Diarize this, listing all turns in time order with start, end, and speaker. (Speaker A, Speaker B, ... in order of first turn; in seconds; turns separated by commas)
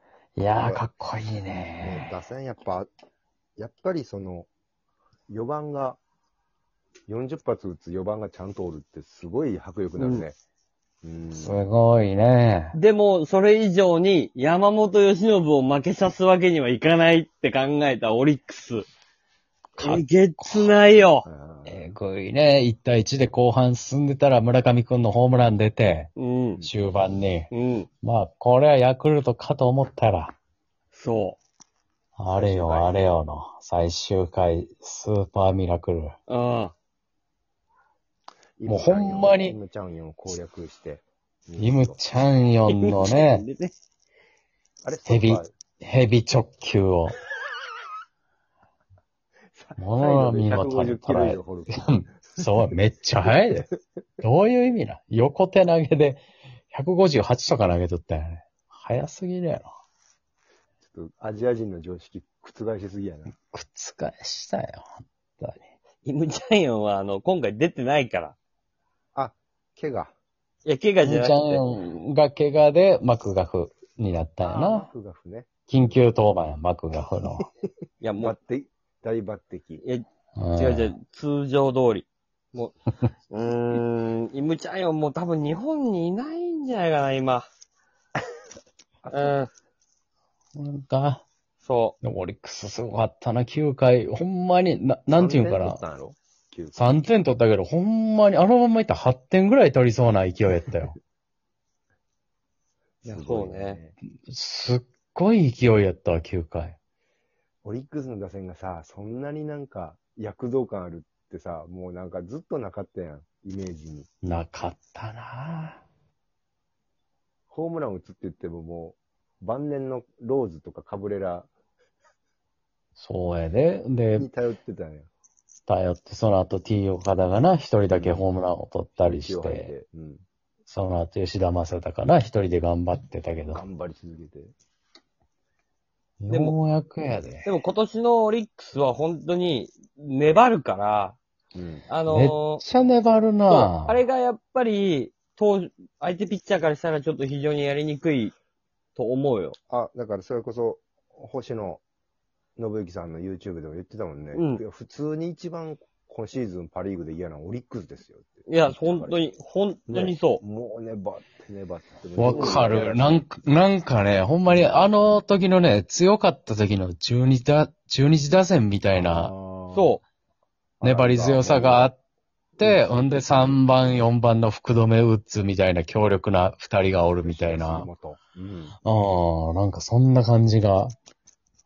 Speaker A: 0.4-2.1, Speaker B: 0.6-0.8, Speaker B: 1.8-2.9, Speaker B: 3.6-4.5, Speaker B: 5.3-6.0, Speaker B: 7.1-10.3, Speaker C: 10.0-10.2, Speaker B: 11.0-11.6, Speaker A: 11.3-12.7, Speaker C: 12.7-18.9, Speaker A: 19.8-20.7, Speaker C: 19.8-21.2, Speaker B: 21.2-21.8, Speaker A: 21.6-26.1, Speaker C: 26.2-26.6, Speaker A: 26.6-27.5, Speaker C: 27.5-27.9, Speaker A: 28.0-30.3, Speaker C: 30.9-31.4, Speaker A: 32.2-36.1, Speaker B: 32.3-33.1, Speaker C: 36.3-36.7, Speaker B: 38.6-42.0, Speaker A: 38.6-39.6, Speaker A: 41.6-43.4, Speaker C: 42.7-43.7, Speaker B: 44.8-45.5, Speaker A: 45.0-47.2, Speaker B: 49.5-51.8, Speaker A: 49.8-53.7, Speaker A: 54.2-56.2, Speaker A: 56.7-59.7, Speaker B: 60.8-63.3, Speaker A: 63.5-64.8, Speaker A: 65.4-65.7, Speaker C: 66.0-68.4, Speaker B: 69.1-70.1, Speaker C: 70.6-71.6, Speaker A: 71.0-74.9, Speaker B: 74.4-76.0, Speaker A: 75.7-77.5, Speaker C: 78.0-78.3, Speaker B: 78.2-79.8, Speaker A: 80.3-80.9, Speaker C: 80.5-82.8, Speaker C: 83.3-87.5, Speaker B: 89.0-89.3, Speaker C: 89.1-89.5, Speaker A: 90.5-91.2, Speaker C: 91.6-92.0, Speaker A: 92.0-95.8, Speaker B: 95.1-96.8, Speaker A: 96.7-101.0, Speaker B: 103.0-103.9, Speaker C: 103.0-103.8, Speaker A: 104.3-106.8, Speaker B: 107.6-114.1, Speaker A: 114.2-115.8, Speaker B: 117.5-121.5, Speaker A: 123.0-124.3, Speaker B: 124.2-125.1, Speaker A: 125.7-129.7, Speaker B: 127.9-128.2, Speaker B: 129.0-130.2, Speaker A: 130.7-133.6, Speaker B: 133.5-134.5, Speaker A: 136.2-137.5, Speaker C: 136.3-136.6, Speaker C: 137.4-141.2, Speaker B: 141.5-141.9, Speaker C: 141.9-142.6, Speaker A: 142.1-144.0, Speaker C: 143.5-148.3, Speaker C: 148.9-149.6, Speaker B: 149.7-151.8, Speaker B: 152.6-159.2, Speaker C: 154.3-154.6, Speaker C: 158.5-160.4, Speaker B: 159.9-163.2, Speaker A: 162.2-169.3, Speaker C: 162.3-162.6, Speaker B: 164.5-164.9, Speaker B: 168.9-170.0, Speaker C: 169.7-170.0, Speaker B: 170.8-171.9, Speaker A: 170.8-171.9, Speaker A: 172.6-177.9, Speaker B: 172.6-174.0, Speaker B: 177.2-178.8, Speaker A: 178.8-180.9